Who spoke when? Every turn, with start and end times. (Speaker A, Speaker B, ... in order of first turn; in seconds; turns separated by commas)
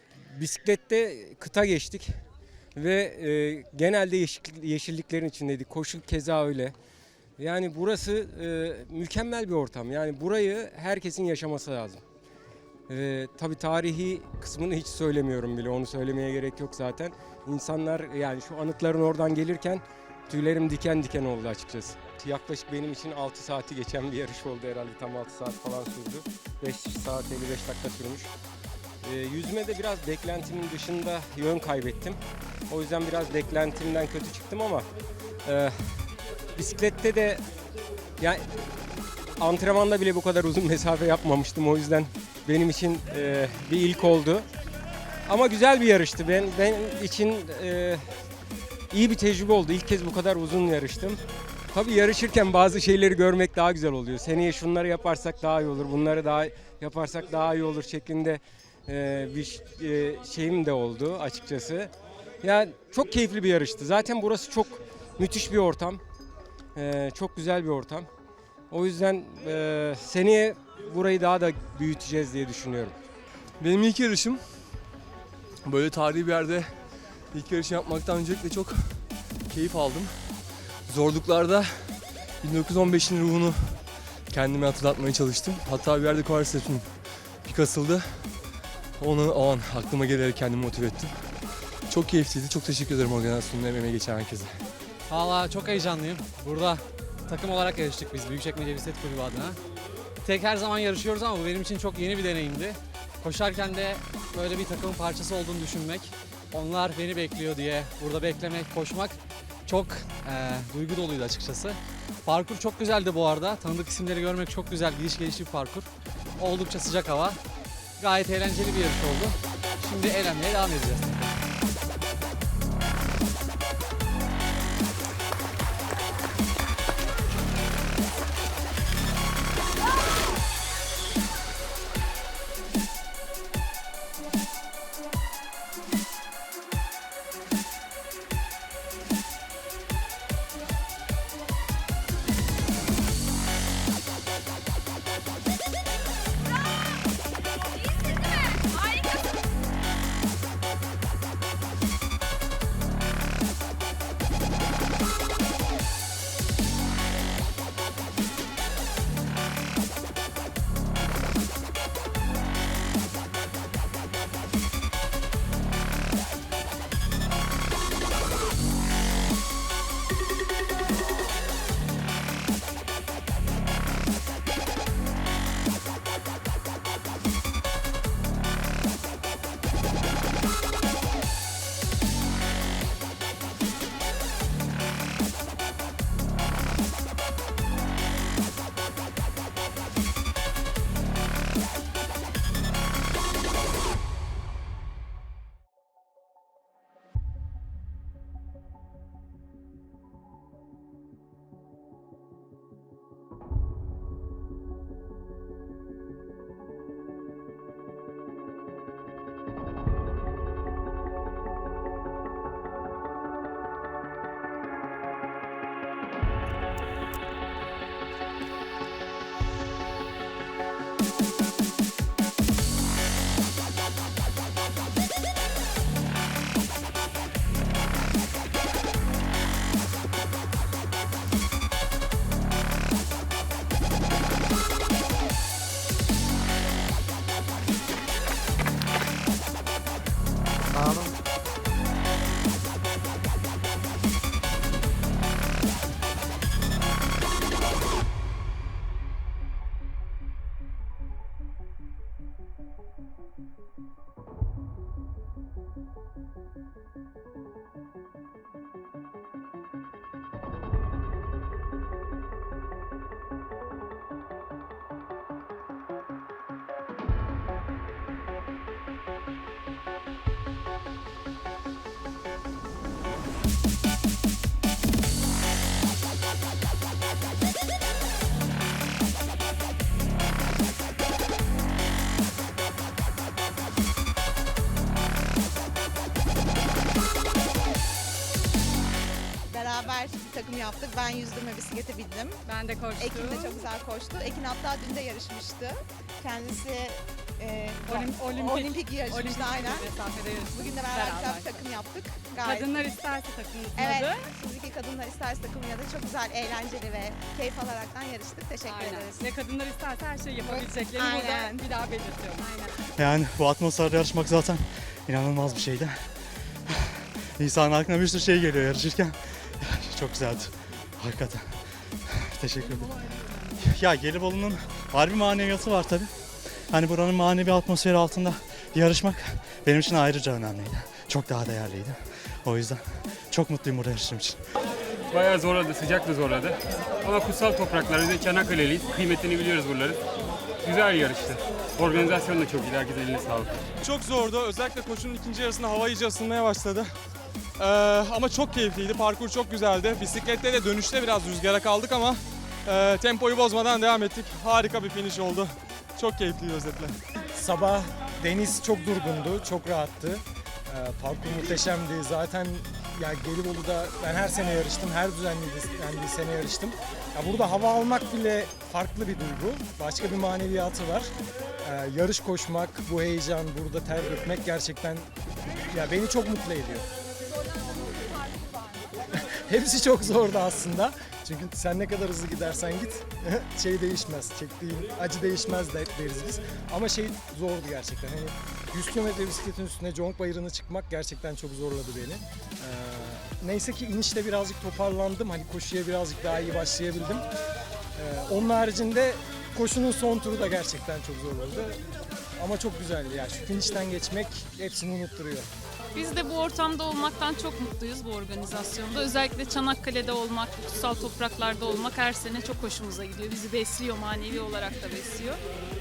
Speaker A: 0.3-2.1, Speaker A: 2.8-6.7, Speaker A: 7.4-12.0, Speaker A: 12.9-28.3, Speaker A: 29.0-32.2, Speaker A: 32.7-34.9, Speaker A: 35.4-37.4, Speaker A: 38.2-38.5, Speaker A: 39.4-44.5, Speaker A: 45.3-48.0, Speaker A: 48.9-51.2, Speaker A: 51.7-61.9, Speaker A: 62.4-66.0, Speaker A: 66.8-68.1, Speaker A: 68.7-72.9, Speaker B: 73.6-74.8, Speaker B: 75.6-88.4, Speaker B: 89.0-94.7, Speaker C: 95.1-99.6, Speaker C: 100.2-115.9, Speaker C: 116.4-117.4, Speaker C: 118.0-121.4, Speaker D: 289.5-292.4, Speaker E: 292.5-293.6, Speaker D: 292.9-299.9, Speaker E: 297.9-301.7, Speaker D: 300.5-302.8, Speaker E: 302.4-304.3, Speaker D: 303.7-309.3, Speaker E: 308.7-312.7, Speaker D: 310.4-311.7, Speaker F: 312.9-316.0, Speaker F: 316.7-334.4, Speaker G: 335.1-340.0, Speaker G: 340.6-343.5, Speaker H: 343.8-346.9, Speaker H: 347.6-357.0, Speaker I: 357.3-371.1, Speaker I: 371.6-375.1, Speaker I: 375.7-376.9, Speaker I: 379.1-397.2, Speaker I: 397.9-401.8, Speaker I: 402.4-405.5, Speaker J: 405.9-415.4